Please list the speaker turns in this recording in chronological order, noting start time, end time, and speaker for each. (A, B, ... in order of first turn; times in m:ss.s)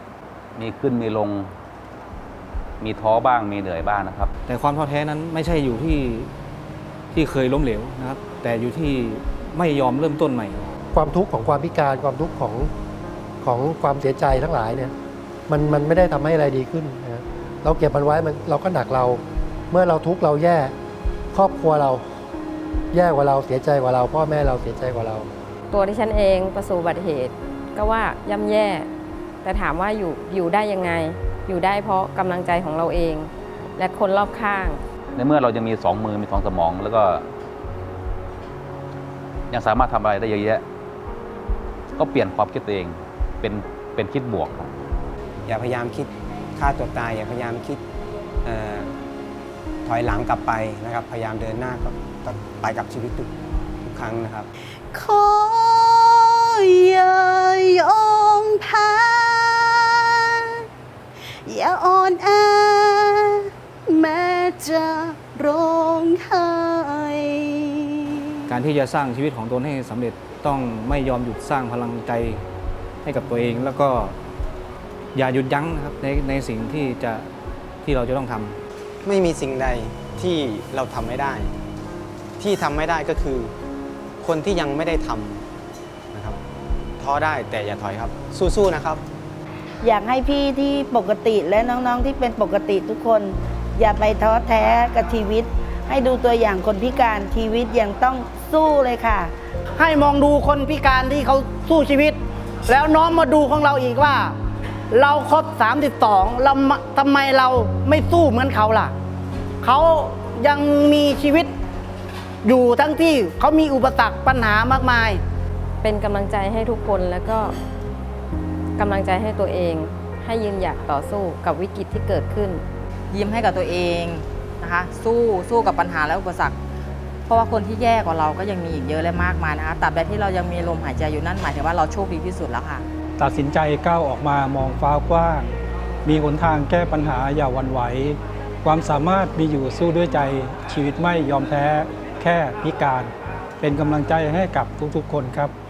0:00.6-0:01.5 A
0:02.8-0:04.3 A
0:04.5-0:06.3 B
0:07.1-0:10.7 B
0:10.9-0:12.7 C
0:13.4-0:14.9 C
0:15.5-0:20.7 C
0:21.3-0:22.0 C
0:22.9-0:25.3 C
0:25.7-0:28.9 D
0:29.4-0:34.8 D
0:35.2-0:37.2 A
0:39.5-0:40.6 A
0:41.9-0:44.7 A
0:45.4-0:47.8 E
0:48.4-0:48.9 E
0:49.8-0:53.3 E
0:53.8-0:54.5 E
0:54.9-1:00.6 F
1:01.4-1:08.5 F
1:08.5-1:12.4 B
1:13.0-1:14.2 B
1:15.1-1:17.3 B
1:17.8-1:18.6 B
1:19.0-1:21.5 E
1:22.4-1:23.5 E
1:24.2-1:25.4 E
1:26.1-1:26.4 E
1:27.0-1:29.0 E
1:29.8-1:39.3 G
1:39.8-1:42.2 H
1:42.7-1:44.3 H
1:44.9-1:48.9 H
1:49.6-1:51.5 H
1:52.4-1:55.2 H
1:55.8-1:57.5 D
1:58.8-2:02.6 D
2:03.1-2:06.6 I
2:07.3-2:12.8 I
2:13.2-2:15.5 J
2:16.0-2:25.5 J